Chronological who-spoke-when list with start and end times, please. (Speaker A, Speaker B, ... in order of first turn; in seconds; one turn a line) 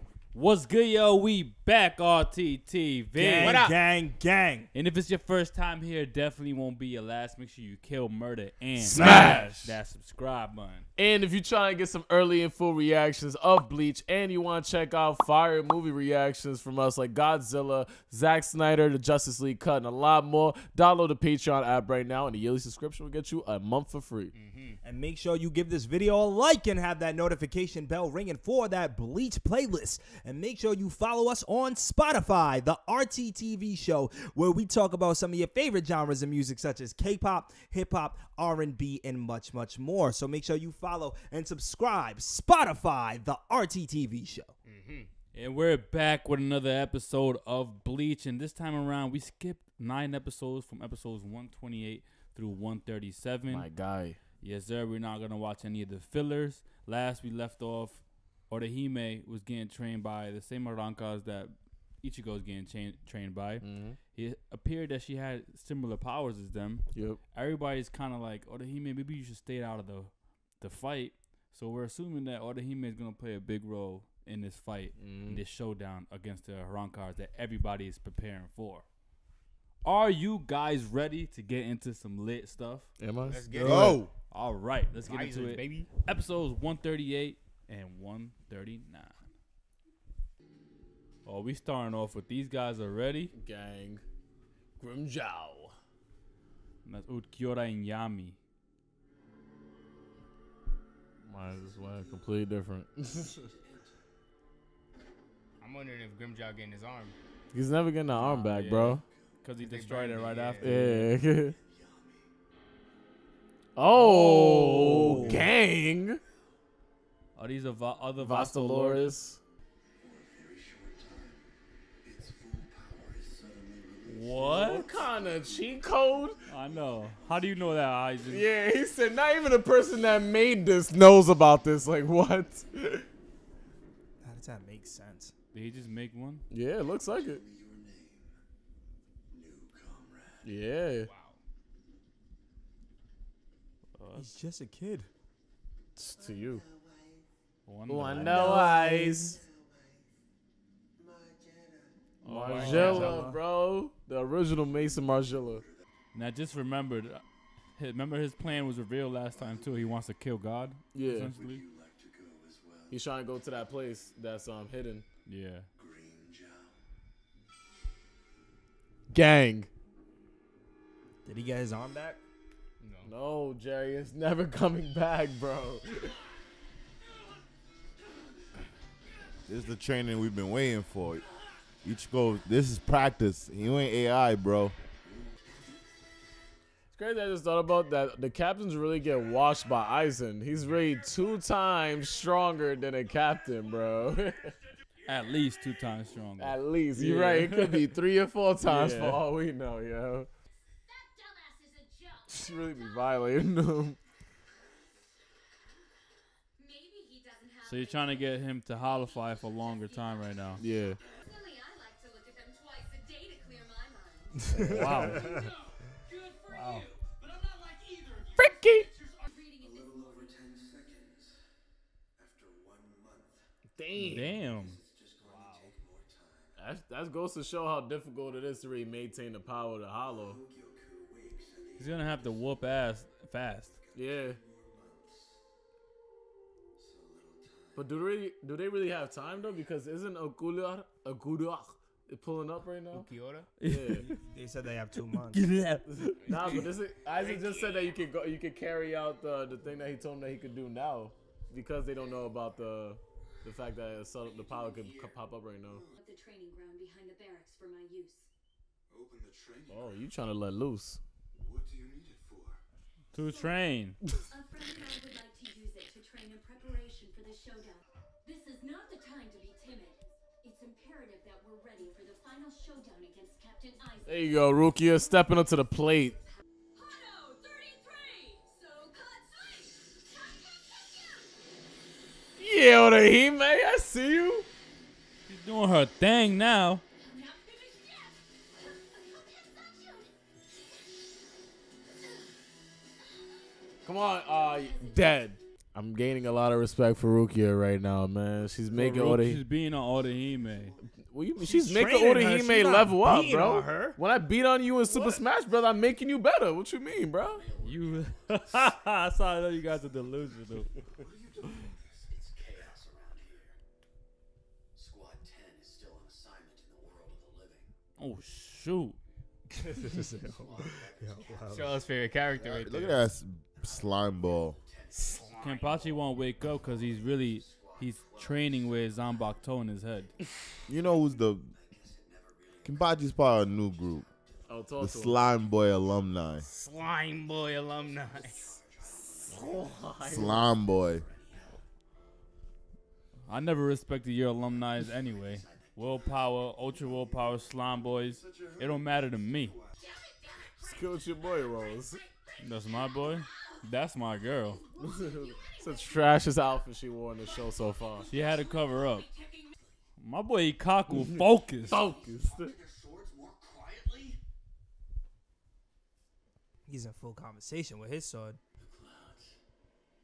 Speaker A: 0.3-3.6
Speaker B: 3.1-4.7
Speaker C: 3.4-3.8
Speaker A: 4.7-10.9
Speaker D: 8.8-9.8
Speaker D: 11.0-24.3
Speaker C: 24.3-24.8
Speaker B: 24.8-44.5
Speaker C: 44.7-45.1
Speaker A: 45.3-53.7
Speaker D: 53.5-54.2
Speaker A: 54.4-78.8
Speaker D: 63.6-64.0
Speaker D: 66.9-67.2
Speaker D: 75.0-75.4
Speaker A: 79.8-82.9
Speaker D: 83.0-83.6
Speaker C: 83.3-84.0
Speaker E: 83.5-84.1
Speaker B: 83.5-84.0
Speaker A: 84.3-89.2
Speaker C: 85.0-85.9
Speaker A: 91.2-93.3
Speaker D: 93.3-94.0
Speaker D: 94.8-95.8
Speaker A: 96.8-98.4
Speaker D: 101.2-103.4
Speaker F: 101.4-102.3
Speaker F: 103.1-104.0
Speaker C: 105.6-107.2
Speaker D: 107.5-109.0
Speaker A: 108.2-111.2
Speaker C: 109.6-110.8
Speaker D: 110.6-111.6
Speaker F: 111.4-112.2
Speaker D: 113.8-116.2
Speaker B: 114.3-115.5
Speaker A: 114.3-115.2
Speaker A: 117.4-119.2
Speaker D: 118.2-119.4
Speaker F: 120.0-121.4
Speaker F: 122.0-126.0
Speaker A: 124.1-124.9
Speaker D: 124.4-126.4
Speaker A: 126.5-128.5
Speaker F: 126.6-127.7
Speaker D: 128.3-133.1
Speaker B: 134.2-135.3
Speaker A: 135.5-136.5
Speaker D: 136.5-137.4
Speaker F: 137.1-137.8
Speaker G: 137.4-138.3
Speaker F: 139.3-140.5
Speaker D: 140.4-141.1
Speaker C: 141.0-141.4
Speaker A: 144.0-144.3
Speaker B: 144.1-145.1
Speaker D: 146.0-146.6
Speaker F: 146.2-147.3
Speaker A: 147.7-148.6
Speaker D: 147.9-149.4
Speaker B: 148.2-149.1
Speaker F: 148.3-150.1
Speaker F: 150.9-152.0
Speaker A: 152.2-153.2
Speaker D: 152.2-155.7
Speaker B: 152.8-153.4
Speaker A: 156.1-157.2
Speaker A: 157.8-161.6
Speaker D: 160.9-161.3
Speaker G: 161.3-163.0
Speaker D: 162.9-165.1
Speaker A: 165.3-165.7
Speaker G: 165.8-166.8
Speaker D: 169.1-169.7
Speaker B: 171.2-172.2
Speaker C: 172.8-173.1
Speaker D: 173.0-176.2
Speaker E: 179.5-181.3
Speaker E: 181.8-184.8
Speaker D: 186.9-194.6
Speaker A: 195.1-197.9
Speaker D: 196.4-200.3
Speaker A: 198.6-199.2
Speaker H: 200.8-203.1
Speaker D: 202.3-204.0
Speaker H: 206.6-215.5
Speaker A: 207.6-210.6
Speaker D: 210.6-211.0
Speaker B: 214.4-215.5
Speaker A: 214.6-215.4
Speaker H: 216.3-216.8
Speaker B: 216.5-216.8
Speaker G: 217.0-219.2
Speaker D: 218.4-218.9
Speaker H: 219.3-220.4
Speaker F: 219.6-221.4
Speaker F: 222.2-223.5
Speaker D: 223.8-224.5
Speaker A: 224.0-224.8
Speaker F: 224.1-226.6
Speaker B: 225.2-225.7
Speaker D: 226.6-230.4
Speaker F: 230.1-232.9
Speaker A: 231.8-233.7
Speaker F: 233.7-235.4
Speaker D: 233.9-234.4
Speaker F: 236.8-237.9
Speaker D: 237.8-243.1
Speaker C: 242.9-243.5
Speaker A: 243.6-244.1
Speaker D: 243.6-244.1
Speaker B: 244.1-245.5
Speaker A: 245.3-246.1
Speaker D: 245.9-255.9
Speaker C: 246.3-247.3
Speaker F: 247.2-247.8
Speaker F: 254.2-255.9
Speaker H: 255.9-258.3
Speaker F: 258.9-259.8
Speaker G: 258.9-259.9
Speaker D: 259.7-261.0
Speaker G: 261.4-262.3
Speaker F: 261.7-262.6
Speaker A: 263.1-264.0
Speaker H: 263.2-263.7
Speaker H: 264.3-275.3
Speaker D: 274.1-276.2
Speaker H: 276.8-281.4
Speaker D: 282.4-284.5
Speaker A: 285.3-286.8
Speaker H: 287.0-290.1
Speaker D: 293.9-299.4
Speaker H: 294.3-295.2
Speaker A: 298.7-300.7
Speaker F: 300.0-300.9
Speaker D: 301.0-307.5
Speaker B: 301.4-304.0
Speaker A: 304.9-305.2
Speaker F: 307.2-313.6
Speaker A: 307.6-310.7
Speaker F: 314.8-317.7
Speaker A: 318.0-319.0
Speaker B: 319.5-321.8
Speaker F: 319.9-321.8
Speaker C: 321.5-323.0
Speaker E: 322.3-324.6
Speaker F: 323.6-334.7
Speaker C: 324.9-325.9
Speaker A: 325.4-330.1
Speaker E: 330.7-331.5
Speaker E: 332.6-334.1
Speaker D: 334.5-335.2
Speaker E: 334.8-336.5
Speaker C: 336.4-338.6
Speaker F: 336.8-341.6
Speaker D: 339.3-340.5
Speaker E: 340.0-341.1
Speaker A: 343.3-349.6
Speaker F: 344.5-347.1
Speaker G: 348.1-349.7
Speaker H: 349.8-353.6
Speaker D: 350.6-352.0
Speaker A: 352.4-354.6
Speaker H: 354.2-356.4
Speaker D: 354.8-358.1
Speaker H: 357.2-359.5
Speaker A: 358.1-359.1
Speaker A: 360.0-361.9
Speaker D: 360.9-362.6
Speaker F: 361.7-364.2
Speaker B: 366.7-368.4
Speaker F: 368.6-369.4